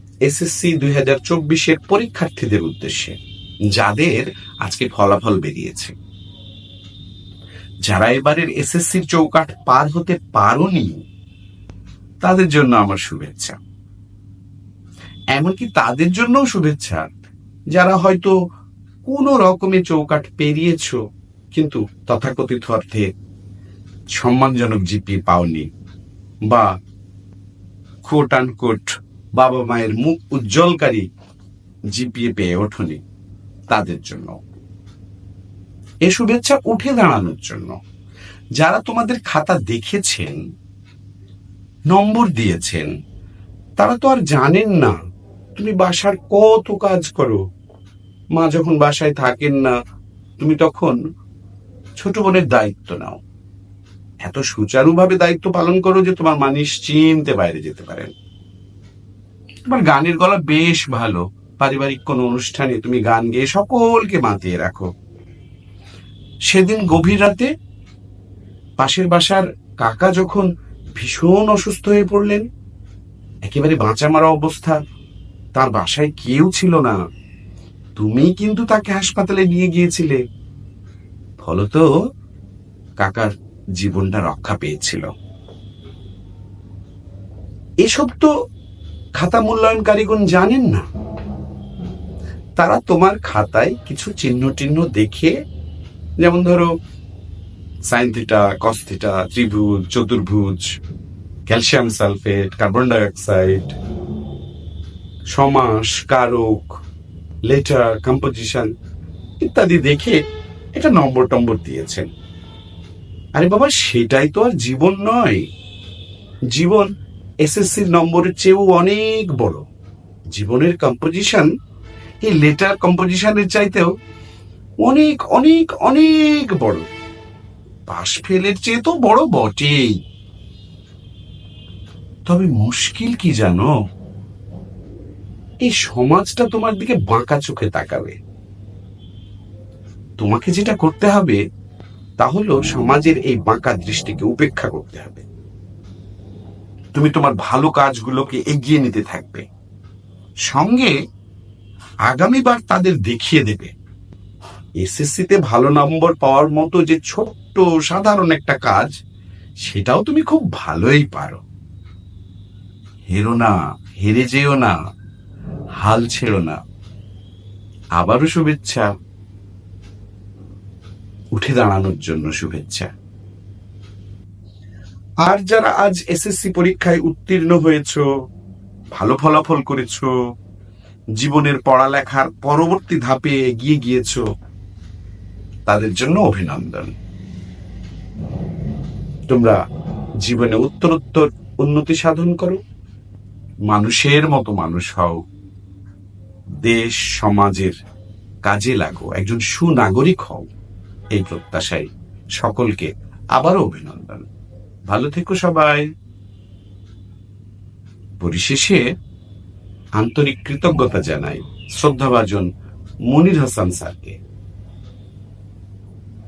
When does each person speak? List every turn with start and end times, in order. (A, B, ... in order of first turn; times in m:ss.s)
0:00.3-0:03.2 A
0:03.7-0:05.9 A
0:07.9-0:11.0 A
0:12.2-0:13.6 A
0:15.3-0:17.1 A
0:17.7-0:18.3 A
0:19.0-0:21.0 A
0:21.5-0:23.1 A
0:24.1-0:25.7 A
0:28.0-0:31.0 A
0:31.9-0:33.0 A
0:33.7-0:34.4 A
0:36.1-0:37.8 A
0:38.6-0:40.4 A
0:41.9-0:42.9 A
0:43.8-0:44.9 A
0:45.6-0:47.4 A
0:48.4-0:49.7 A
0:50.4-0:51.0 A
0:52.0-0:53.2 A
0:54.2-0:58.1 A
0:59.7-1:04.9 A
1:06.5-1:07.5 A
1:08.8-1:12.5 A
1:13.5-1:14.8 A
1:15.6-1:17.0 A
1:18.0-1:20.2 A
1:21.4-1:21.9 A
1:23.0-1:25.1 A
1:27.8-1:28.3 A
1:29.2-1:30.8 A
1:32.6-1:35.3 A
1:36.2-1:36.7 A
1:37.9-1:40.6 A
1:41.5-1:43.8 A
1:45.3-1:46.8 A
1:47.5-1:48.7 A
1:49.4-1:50.2 A
1:50.8-1:52.1 A
1:53.4-1:55.4 A
1:56.5-1:56.9 A
1:57.4-1:59.6 A
2:00.3-2:01.5 A
2:02.2-2:03.9 A
2:04.8-2:06.8 A
2:07.9-2:10.0 A
2:12.3-2:13.7 A
2:15.6-2:18.2 A
2:20.2-2:21.4 A
2:22.2-2:25.2 A
2:26.9-2:29.4 A
2:30.5-2:30.9 A
2:32.1-2:33.7 A
2:34.8-2:38.9 A
2:39.6-2:41.4 A
2:43.1-2:44.8 A
2:45.8-2:46.6 A
2:48.0-2:48.9 A
2:51.4-2:52.9 A
2:55.2-2:58.0 A
2:58.9-3:00.1 A
3:01.2-3:04.2 A
3:05.7-3:06.9 A
3:09.3-3:09.6 A
3:10.2-3:12.6 A
3:13.7-3:15.2 A
3:16.6-3:17.7 A
3:18.4-3:20.5 A
3:21.1-3:21.9 A
3:22.4-3:24.3 A
3:24.9-3:25.8 A
3:28.2-3:28.8 A
3:30.0-3:32.5 A
3:33.1-3:34.2 A